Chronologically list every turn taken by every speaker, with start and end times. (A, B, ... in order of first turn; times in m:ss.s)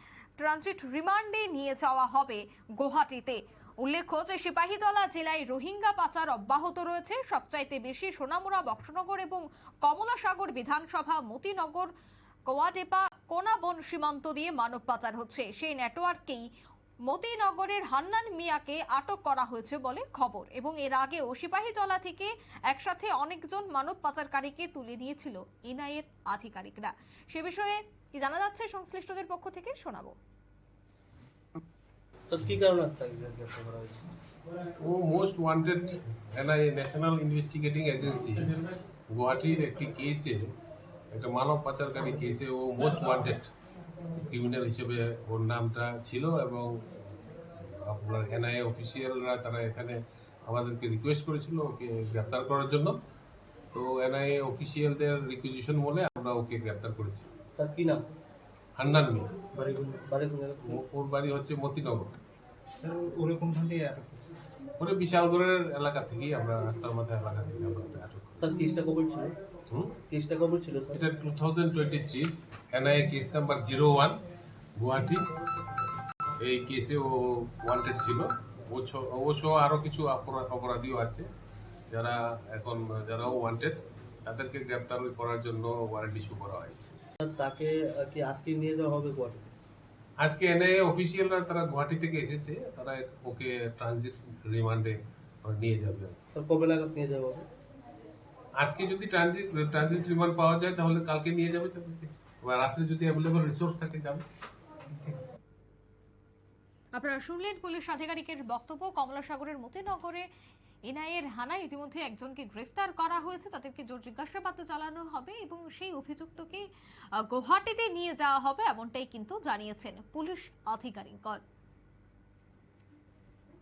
0:00.4-0:11.9 A
0:12.5-0:16.4 A
0:17.1-0:30.2 A
0:32.3-0:34.1 B
0:34.8-0:40.5 C
0:41.1-0:43.5 C
0:44.1-0:53.0 C
0:53.7-0:57.3 C
0:57.6-0:58.0 B
0:58.8-0:59.3 C
0:59.6-1:00.0 D
1:00.0-1:00.8 B
1:00.6-1:02.1 C
1:02.8-1:04.2 D
1:04.8-1:08.4 C
1:08.4-1:09.3 B
1:09.7-1:10.0 C
1:10.1-1:11.0 B
1:10.9-1:14.2 C
1:14.8-1:15.3 C
1:16.4-1:21.3 C
1:21.9-1:26.9 C
1:27.2-1:29.5 B
1:30.2-1:36.2 C
1:36.3-1:37.4 B
1:38.6-1:44.2 C
1:46.9-1:50.3 A
1:50.9-1:56.6 A
1:57.2-2:01.4 A